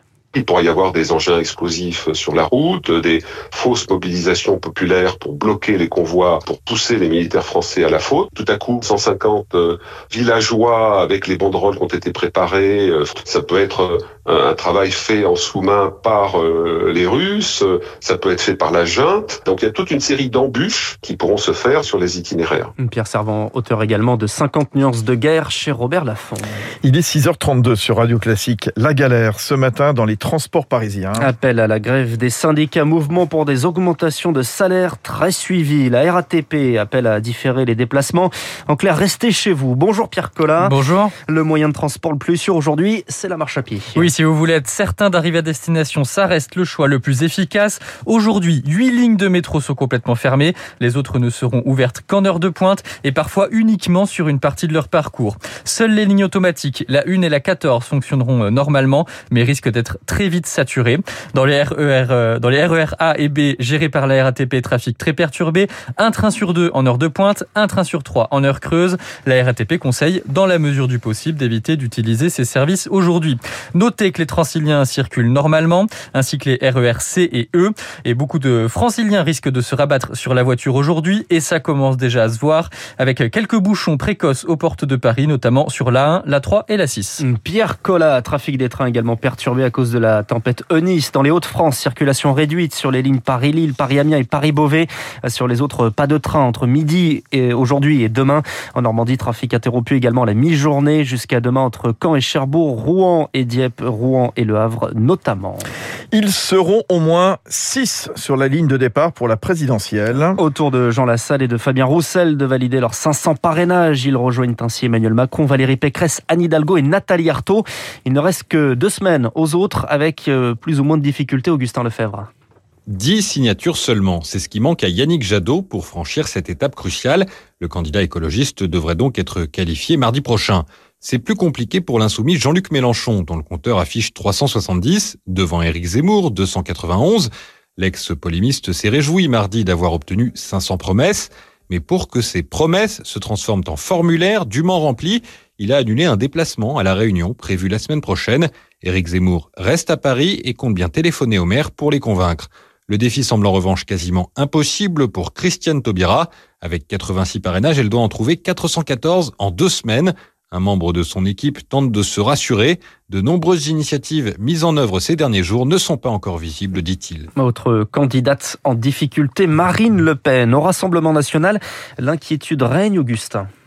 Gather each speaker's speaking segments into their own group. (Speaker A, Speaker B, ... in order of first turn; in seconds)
Speaker A: 0.3-22.7
Speaker B: 22.8-26.6, 31.2-40.8, 41.3-44.1, 87.2-105.7, 110.2-122.3, 167.4-173.5
Speaker C: 26.8-31.3, 106.1-110.4
Speaker D: 40.6-41.1, 44.0-87.2
Speaker E: 122.9-167.3